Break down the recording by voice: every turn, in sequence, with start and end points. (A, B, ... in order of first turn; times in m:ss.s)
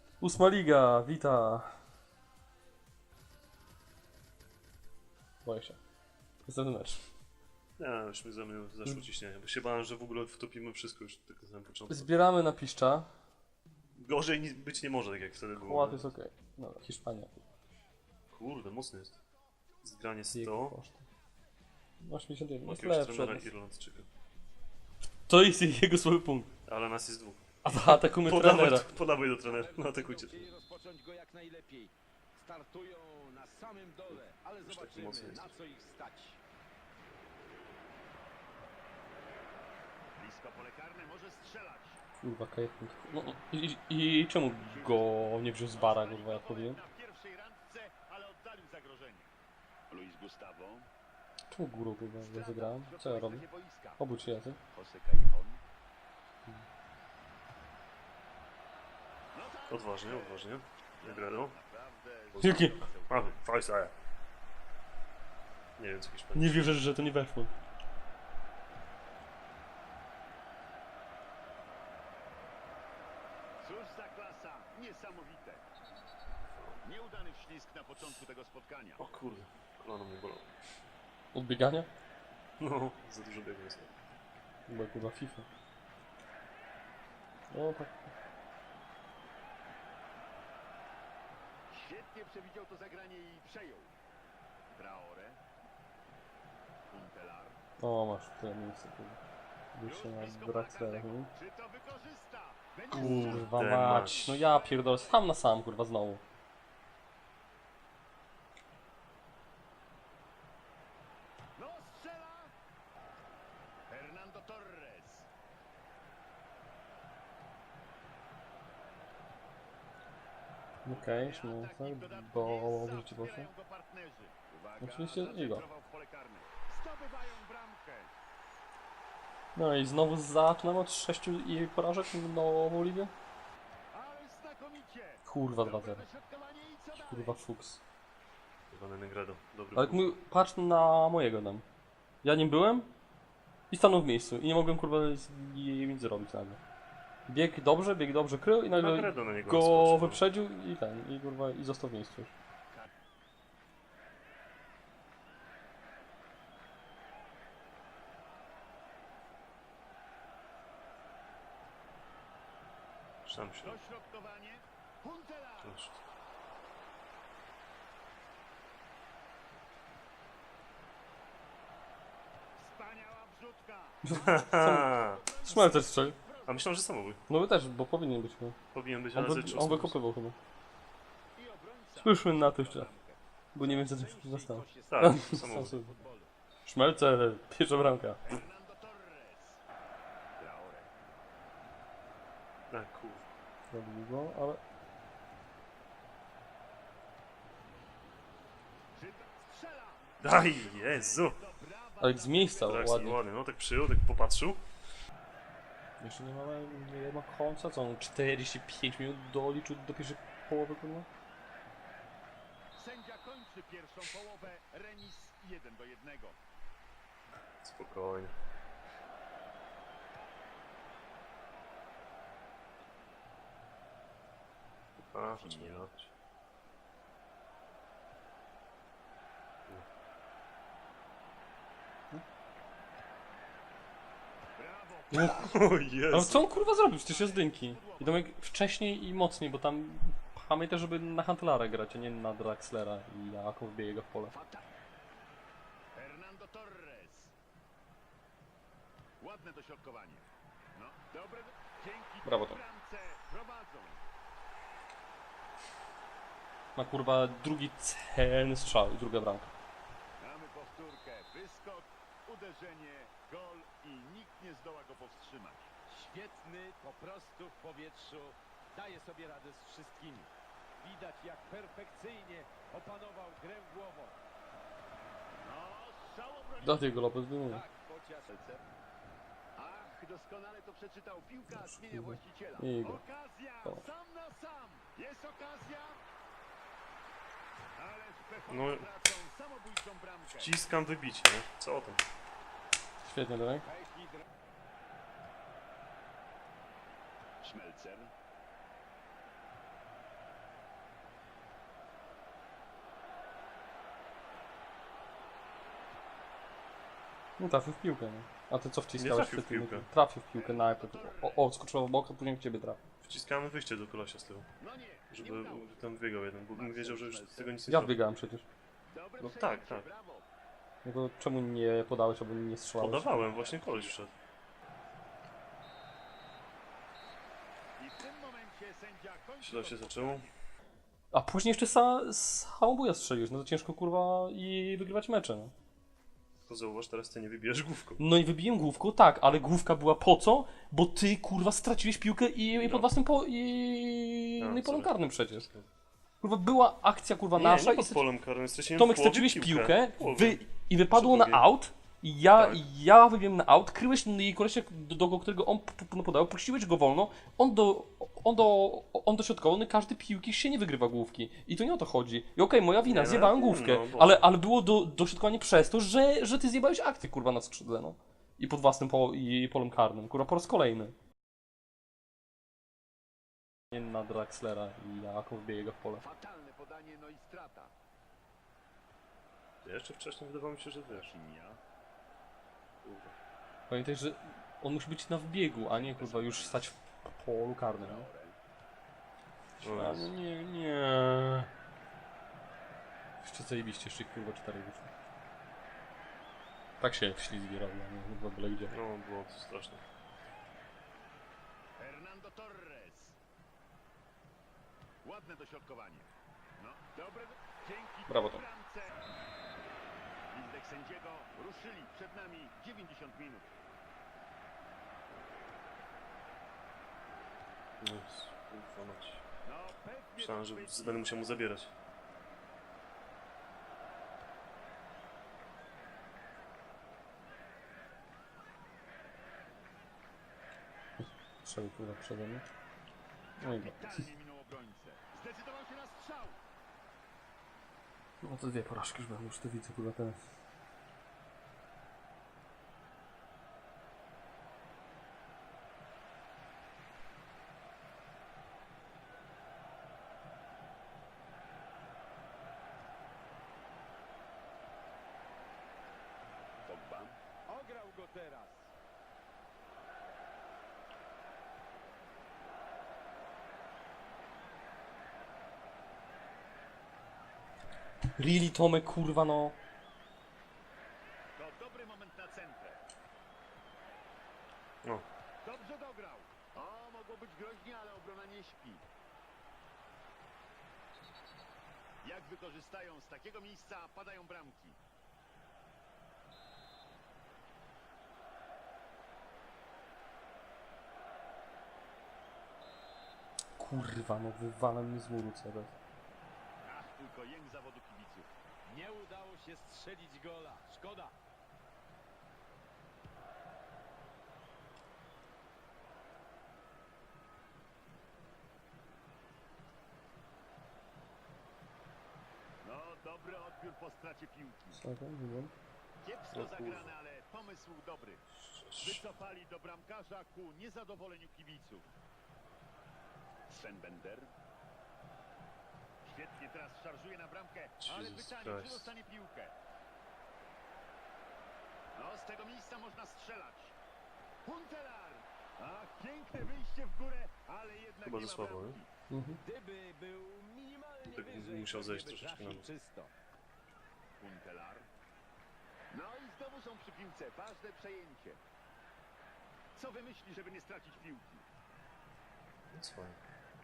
0:00.2-0:01.8 A
0:05.4-0:05.8 A
0:06.4-0:07.1 A
0:07.8-0:12.1 B
0:11.9-0:13.1 A
0:13.9-0:16.1 B
0:15.6-0:17.4 A
0:18.3-0:19.2 B
0:19.8-0:20.8 B
0:20.3-0:21.1 A
0:22.0-0:23.5 A
0:22.6-0:24.1 B
0:25.3-0:26.5 A
0:26.6-0:30.5 B
0:27.6-0:28.8 A
0:29.0-0:36.4 C
0:34.1-0:35.5 B
0:35.2-0:35.6 D
0:40.2-0:42.0 D
0:42.2-0:46.8 A
0:44.5-0:49.3 D
0:49.9-0:50.9 D
0:51.5-0:53.4 A
0:52.2-0:54.0 D
0:54.0-0:54.6 A
0:54.7-0:55.6 D
0:59.3-1:03.4 D
0:59.7-1:01.5 B
1:02.3-1:03.9 B
1:02.4-1:02.8 A
1:05.8-1:06.6 B
1:06.3-1:07.5 A
1:13.6-1:15.6 D
1:16.8-1:19.0 D
1:19.0-1:20.5 B
1:21.3-1:21.9 A
1:22.6-1:23.9 B
1:24.7-1:25.4 A
1:27.5-1:28.1 A
1:31.7-1:33.9 D
1:34.7-1:35.4 D
1:36.9-1:37.6 D
1:37.8-1:39.2 A
1:39.7-1:41.3 A
1:39.8-1:45.3 D
1:42.9-1:46.2 A
1:42.9-1:44.4 B
1:51.6-1:52.5 D
1:53.9-1:55.3 D
2:00.8-2:03.5 A
2:00.8-2:08.1 D
2:04.8-2:05.6 A
2:09.6-2:13.1 A
2:13.9-2:17.4 D
2:15.2-2:16.0 A
2:16.9-2:17.8 A
2:18.7-2:20.2 B
2:19.7-2:21.6 A
2:22.2-2:22.9 A
2:23.7-2:26.6 A
2:27.3-2:32.3 A
2:28.7-2:30.2 B
2:43.2-2:43.8 B
2:43.6-2:45.8 D
2:45.6-2:46.0 B
2:52.6-2:56.8 D
2:54.0-2:54.9 A
2:54.1-2:55.2 B
2:55.4-2:56.2 A
2:56.4-2:57.2 B
2:57.3-2:58.6 A
2:58.7-3:00.0 B
2:59.1-3:00.4 A
3:01.4-3:03.2 D
3:02.0-3:02.9 A
3:03.5-3:06.0 A
3:03.6-3:06.3 C
3:04.9-3:05.7 B
3:06.6-3:08.4 A
3:08.2-3:09.6 D
3:10.4-3:10.9 D
3:12.7-3:13.2 B
3:13.7-3:14.6 A
3:18.9-3:23.1 D
3:20.2-3:21.4 B
3:22.0-3:23.2 A
3:22.6-3:24.6 B
3:26.0-3:31.1 A
3:32.8-3:36.4 D
3:37.6-3:38.3 B
3:45.1-3:46.1 B
3:45.2-3:45.9 D
3:54.6-3:55.6 D
3:55.1-3:56.4 B
3:55.1-3:55.5 A
3:56.1-4:04.3 A
3:56.5-3:58.3 D
4:04.3-4:04.7 D
4:05.9-4:07.3 D
4:09.2-4:14.0 D
4:12.2-4:12.6 A
4:16.8-4:19.5 A
4:20.2-4:25.7 D
4:25.9-4:34.2 C
4:35.4-4:36.9 D
4:36.6-4:37.6 A
4:37.4-4:38.6 C
4:39.6-4:46.0 D
4:41.5-4:43.0 A
4:47.7-4:50.5 D
4:48.5-4:48.9 B
4:50.3-4:52.0 B
4:53.0-4:53.6 A
4:53.6-4:54.2 C
4:57.4-4:58.1 D
5:07.4-5:12.8 A
5:09.0-5:09.9 B
5:10.3-5:11.4 D
5:13.0-5:14.5 B
5:14.6-5:15.9 D
5:15.1-5:18.0 B
5:16.5-5:17.6 D
5:17.7-5:18.4 A
5:18.9-5:20.3 D
5:19.2-5:19.9 B
5:20.8-5:23.4 A
5:22.8-5:24.1 B
5:23.3-5:24.1 D
5:27.8-5:30.3 D
5:29.4-5:30.3 B
5:31.1-5:35.5 A
5:36.4-5:38.0 B
5:38.0-5:45.5 A
5:42.6-5:42.9 B
5:44.4-5:45.6 B
5:46.2-5:48.0 A
5:47.4-5:51.4 B
5:48.8-6:10.9 A
5:52.4-5:52.6 B
6:02.8-6:04.2 B
6:13.7-6:16.0 A
6:16.0-6:17.7 D
6:19.6-6:21.1 B
6:20.9-6:21.6 D
6:22.8-6:23.1 B
6:23.7-6:28.1 A
6:25.6-6:26.7 D
6:27.7-6:28.4 D
6:29.6-6:30.1 B
6:29.6-6:31.5 A
6:33.2-6:34.9 A
6:36.8-6:38.8 A
6:38.7-6:39.8 B
6:41.8-6:43.2 D
6:45.0-6:48.9 D
6:48.1-6:48.4 A
6:50.3-6:53.5 D
6:57.8-6:59.2 B
6:59.4-7:01.0 D
7:00.2-7:01.7 B
7:11.0-7:12.4 A
7:13.4-7:14.0 A
7:13.4-7:16.4 D
7:18.2-7:20.2 A
7:36.6-7:37.2 D
7:37.5-7:38.7 C
7:48.2-7:49.6 A
7:51.4-7:52.8 D
7:55.4-7:58.8 D
8:02.0-8:04.8 D
8:13.6-8:15.7 A
8:16.6-8:18.3 D
8:18.6-8:21.1 C
8:32.6-8:34.8 D
8:34.7-8:35.5 A
8:36.0-8:38.2 D
8:36.3-8:36.9 B
8:38.5-8:39.0 B
8:38.8-8:41.9 D
8:43.5-8:44.3 D
8:46.0-8:49.5 D
8:47.8-8:48.9 B
8:51.9-8:53.8 D
8:54.4-8:58.9 D
8:58.0-8:58.8 B
8:59.1-8:59.4 A
8:59.4-9:03.1 C
9:01.0-9:02.6 B
9:04.2-9:04.9 D
9:05.9-9:08.4 D
9:09.7-9:11.4 D
9:12.7-9:13.2 B